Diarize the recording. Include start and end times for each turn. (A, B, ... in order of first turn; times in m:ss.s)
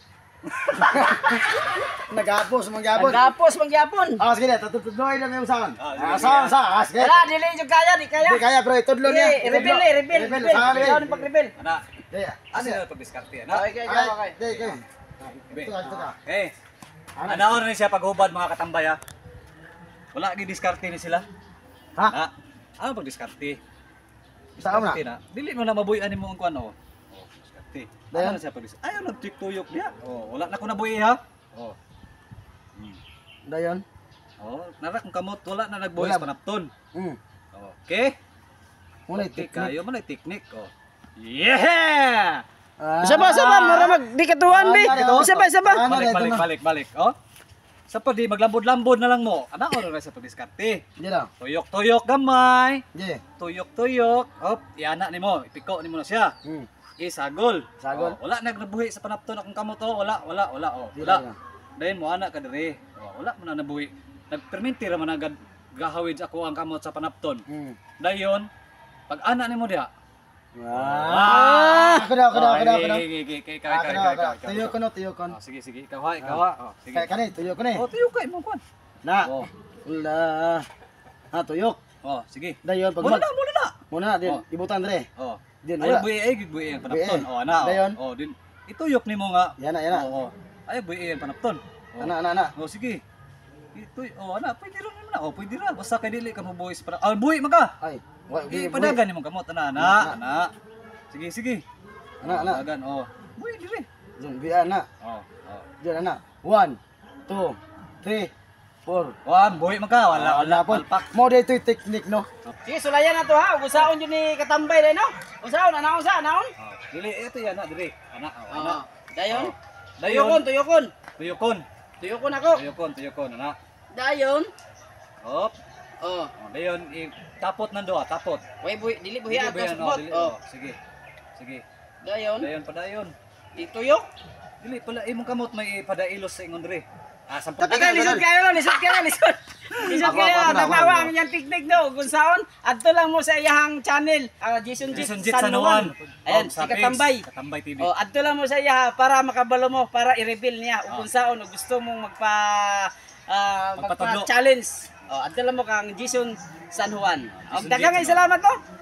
0:00.5-0:01.0 A
0:00.9-0:03.3 B
0:02.9-0:04.2 C
0:04.2-0:07.3 B
0:05.8-0:06.6 A
0:07.0-0:08.5 C
0:08.2-0:11.2 B
0:09.0-0:11.5 C
0:10.5-0:11.0 A
0:11.6-0:11.8 A
0:12.1-0:12.8 B
0:12.5-0:13.7 A
0:13.5-0:14.4 C
0:13.8-0:16.1 B
0:14.5-0:14.8 A
0:15.5-0:16.5 A
0:17.2-0:17.5 B
0:17.3-0:19.0 A
0:20.1-0:21.2 A
0:22.1-0:23.6 A
0:24.6-0:31.8 A
0:24.6-0:25.0 B
0:28.1-0:28.4 B
0:33.4-0:33.8 B
0:34.4-0:36.7 A
0:36.0-0:36.3 B
0:36.9-0:37.2 B
0:37.5-0:38.1 A
0:39.1-0:39.7 B
0:39.1-0:42.4 A
0:42.8-0:46.5 B
0:43.0-0:45.8 C
0:43.2-0:43.9 A
0:44.8-0:47.1 A
0:47.9-0:50.8 A
0:51.0-0:51.3 B
0:51.4-0:52.8 A
0:52.9-0:53.2 B
0:53.4-0:56.3 A
0:57.0-1:01.2 A
0:57.8-0:58.2 B
1:00.9-1:01.4 B
1:01.8-1:07.4 A
1:07.5-1:07.8 B
1:08.0-1:08.5 A
1:09.1-1:09.9 A
1:10.5-1:13.0 B
1:10.7-1:14.8 A
1:11.2-1:12.0 C
1:13.7-1:15.4 B
1:15.3-1:17.1 A
1:16.9-1:17.8 B
1:17.7-1:18.6 A
1:19.0-1:19.3 B
1:19.2-1:19.5 A
1:19.8-1:20.6 B
1:21.3-1:21.8 B
1:22.0-1:24.4 A
1:22.6-1:23.2 B
1:23.9-1:25.0 B
1:25.2-1:33.0 A
1:25.6-1:26.1 B
1:26.8-1:28.0 B
1:29.6-1:30.1 B
1:32.0-1:32.5 B
1:33.7-1:37.7 A
1:37.8-1:39.0 B
1:38.5-1:40.5 A
1:39.8-1:40.2 B
1:41.1-1:41.6 A
1:42.2-1:42.6 B
1:42.2-1:43.9 A
1:44.2-1:44.9 B
1:45.0-1:45.6 A
1:45.8-1:48.3 B
1:48.8-1:49.2 B
1:49.2-1:51.1 A
1:50.1-1:52.3 B
1:52.6-1:56.5 C
1:56.6-2:00.4 A
1:58.5-2:00.9 C
2:01.2-2:01.6 A
2:02.0-2:02.6 C
2:02.5-2:03.6 A
2:03.9-2:04.5 C
2:05.2-2:05.5 A
2:06.0-2:06.3 C
2:06.4-2:08.4 A
2:08.6-2:10.3 C
2:09.3-2:10.8 A
2:11.4-2:11.6 A
2:12.0-2:12.5 C
2:12.4-2:13.1 A
2:13.5-2:14.1 C
2:14.6-2:18.2 A
2:17.6-2:18.2 B
2:17.6-2:27.2 C
2:19.8-2:20.8 A
2:20.0-2:21.1 B
2:24.9-2:27.9 A
2:27.8-2:38.6 C
2:33.8-2:34.3 A
2:37.4-2:38.2 A